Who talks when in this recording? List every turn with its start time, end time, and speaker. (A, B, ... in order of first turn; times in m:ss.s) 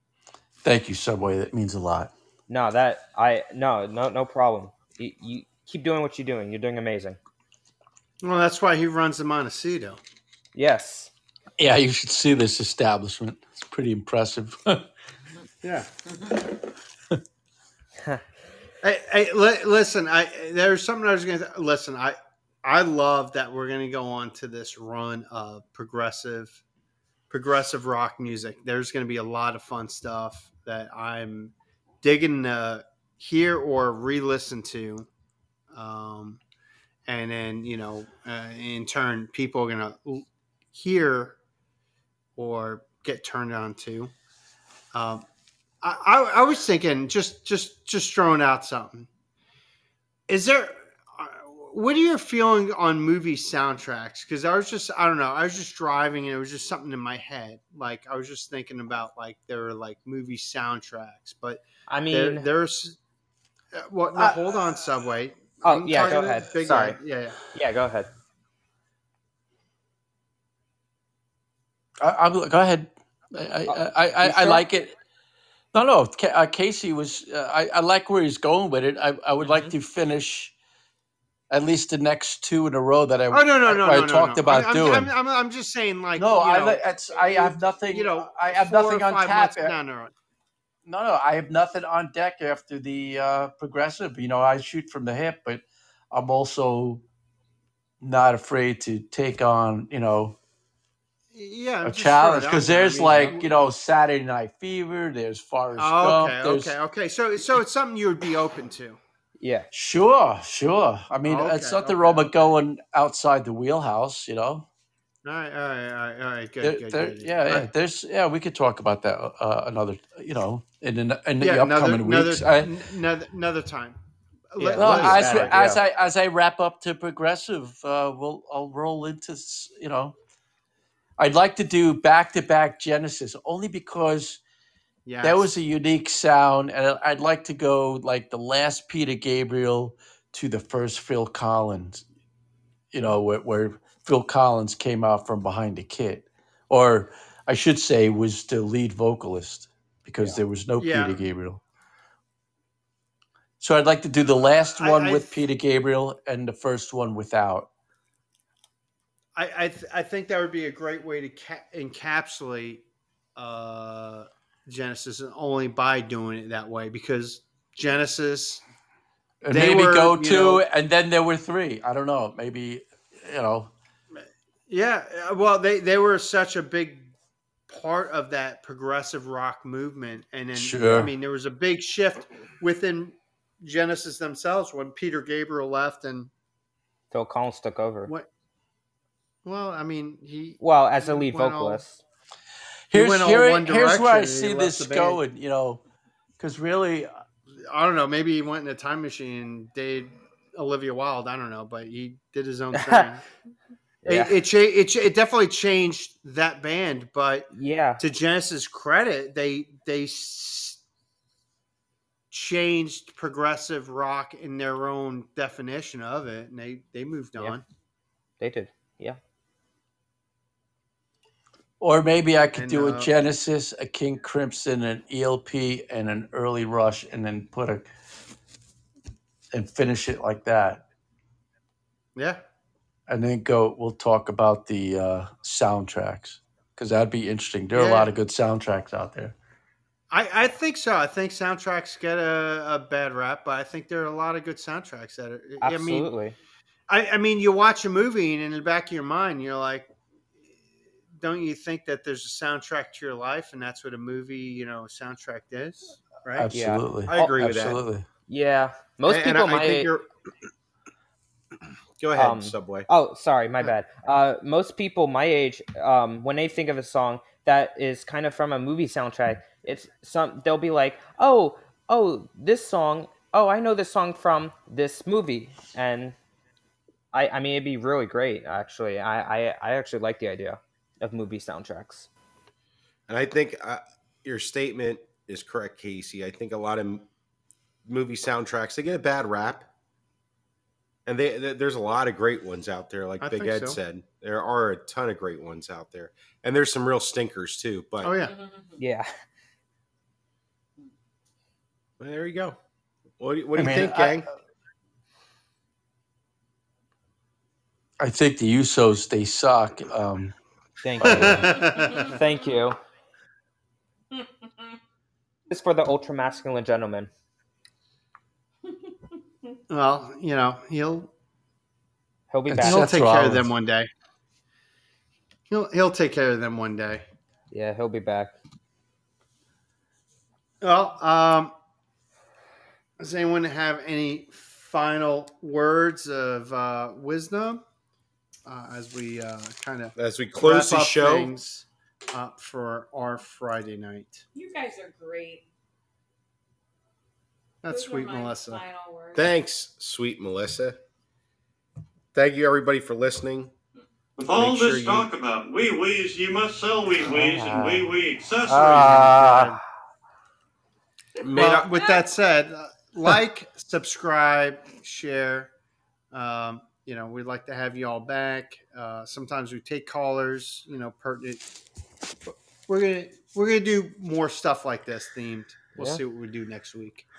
0:00.6-0:02.1 A
0:02.5-0:07.2 B
0:08.2-0:10.0 C
0:10.5-0:11.1 B
0:11.6-0:14.9 A
0:15.6-0:16.1 C
0:18.8-0:26.6 C
0:27.3-0:35.1 C
0:35.7-0:36.4 C
0:37.1-0:41.4 C
0:42.4-0:44.1 C
0:44.9-0:45.2 C
0:45.8-0:49.1 C
0:50.3-1:03.0 C
1:01.9-1:02.5 B
1:03.7-1:07.4 C
1:05.6-1:07.0 B
1:07.5-1:08.1 B
1:12.0-1:14.9 A
1:13.6-1:14.6 B
1:15.7-1:20.5 A
1:19.4-1:19.7 B
1:21.5-1:25.1 A
1:23.3-1:30.1 C
1:26.2-1:29.8 A
1:30.8-1:37.0 A
1:38.0-1:40.4 A
1:41.3-1:43.5 C
1:41.8-1:46.7 A
1:45.8-1:49.0 C
1:49.4-1:49.7 B
1:49.7-1:54.6 A
1:51.2-1:52.3 C
1:55.2-1:57.7 C
1:56.6-2:02.7 A
2:01.4-2:04.0 C
2:04.5-2:05.8 C
2:04.6-2:05.8 B
2:04.8-2:10.1 A
2:11.2-2:14.4 A
2:15.0-2:15.5 C
2:15.2-2:22.0 A
2:22.9-2:31.6 A
2:30.8-2:31.2 C
2:33.6-2:37.7 A
2:34.7-2:35.4 C
2:39.3-2:42.8 C
2:43.4-2:48.6 C
2:49.4-2:53.7 A
2:49.5-2:50.6 C
2:54.2-2:57.1 C
2:57.7-3:06.3 C
3:00.5-3:01.1 A
3:07.1-3:08.1 B
3:09.4-3:11.8 C
3:10.6-3:12.0 B
3:12.9-3:15.8 A
3:12.9-3:15.2 C
3:16.4-3:17.1 A
3:17.6-3:23.2 C
3:22.7-3:23.0 B
3:24.0-3:24.3 B
3:24.0-3:27.5 C
3:27.5-3:28.0 B
3:28.0-3:30.8 C
3:32.3-3:37.6 C
3:38.4-3:39.2 B
3:41.8-3:47.9 A
3:42.5-3:43.1 C
3:49.5-3:50.8 A
3:52.2-3:52.4 C
3:53.1-3:59.3 A
3:57.7-3:58.1 C
4:00.1-4:06.1 C
4:05.6-4:06.3 B
4:06.9-4:09.9 C
4:11.2-4:16.5 C
4:16.4-4:18.0 A
4:16.5-4:16.8 B
4:17.1-4:17.8 D
4:18.3-4:19.9 B
4:19.0-4:20.0 D
4:22.0-4:22.9 D
4:22.2-4:36.2 B
4:37.1-4:42.1 B
4:43.1-4:47.0 D
4:47.8-4:49.7 D
4:51.0-4:58.1 D
4:53.2-4:53.8 C
4:58.0-4:58.3 C
4:58.3-4:58.8 E
4:58.8-4:59.1 B
5:02.0-5:02.6 D
5:03.2-5:04.3 D
5:03.6-5:04.2 A
5:08.0-5:10.3 A
5:10.8-5:12.8 B
5:11.0-5:12.1 C
5:11.7-5:12.1 E
5:14.1-5:14.8 E
5:15.5-5:17.1 B
5:19.1-5:19.5 E
5:19.7-5:21.1 C
5:22.3-5:22.8 B
5:22.5-5:23.5 A
5:22.6-5:23.9 C
5:25.5-5:27.0 C
5:27.5-5:28.3 B
5:30.6-5:31.5 C
5:33.0-5:37.6 C
5:38.4-5:44.2 C
5:40.0-5:41.3 D
5:44.3-5:45.4 E
5:47.6-5:48.6 C
5:47.7-5:49.3 E
5:49.1-5:50.8 D
5:52.1-5:53.5 D
5:54.2-5:59.0 F
5:54.3-5:55.1 D
5:57.1-5:57.9 B
5:58.5-5:59.5 D
5:58.7-5:59.5 B
5:59.1-5:59.5 C
6:01.2-6:01.8 D
6:01.3-6:05.5 C
6:06.1-6:11.4 C
6:12.2-6:17.0 C